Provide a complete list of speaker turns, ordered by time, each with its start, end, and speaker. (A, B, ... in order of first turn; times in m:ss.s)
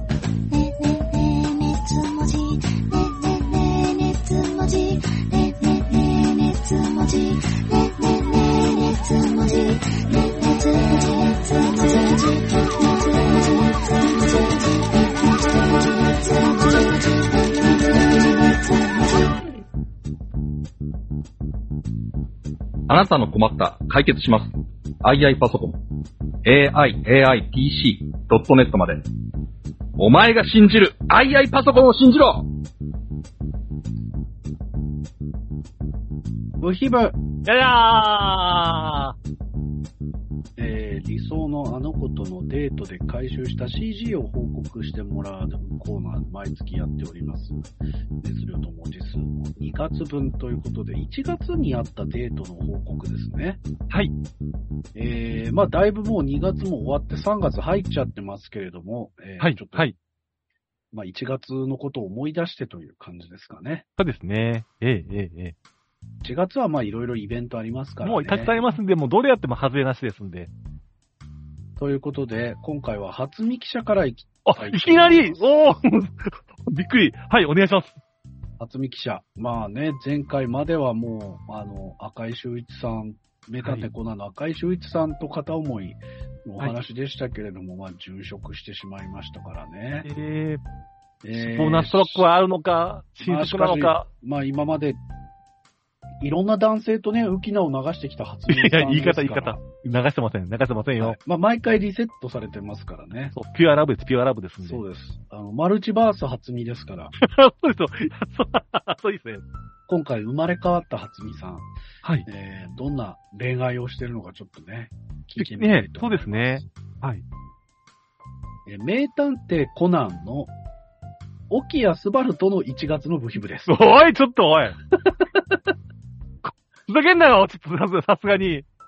0:00.5-0:19.3 A
0:22.9-0:24.5 B
0:25.0-0:25.8 B
0:26.4-0:29.0 B
0:30.0-0:32.5 B
0:36.6-0:37.2 C
0:37.4-0:39.2 D
0:40.6-0:47.7 C
0:48.2-0:53.6 C
0:55.0-0:59.9 C
0:59.4-1:00.0 D
1:00.9-1:03.9 C
1:04.0-1:05.6 D
1:06.2-1:08.5 C
1:08.0-1:10.5 D
1:11.8-1:15.4 C
1:14.4-1:18.0 D
1:18.6-1:30.1 C
1:23.6-1:23.9 D
1:30.0-1:30.6 D
1:31.2-1:32.2 C
1:31.3-1:34.1 D
1:33.2-1:35.0 C
1:36.2-1:39.6 C
1:38.5-1:41.2 D
1:41.0-1:43.3 C
1:43.3-1:44.8 D
1:44.6-1:47.1 C
1:47.2-1:49.4 D
1:49.9-1:51.7 C
1:52.2-1:56.7 C
1:55.4-1:57.2 D
1:58.7-2:00.5 C
2:01.5-2:03.7 C
2:03.7-2:04.8 D
2:05.0-2:05.6 C
2:06.4-2:08.7 D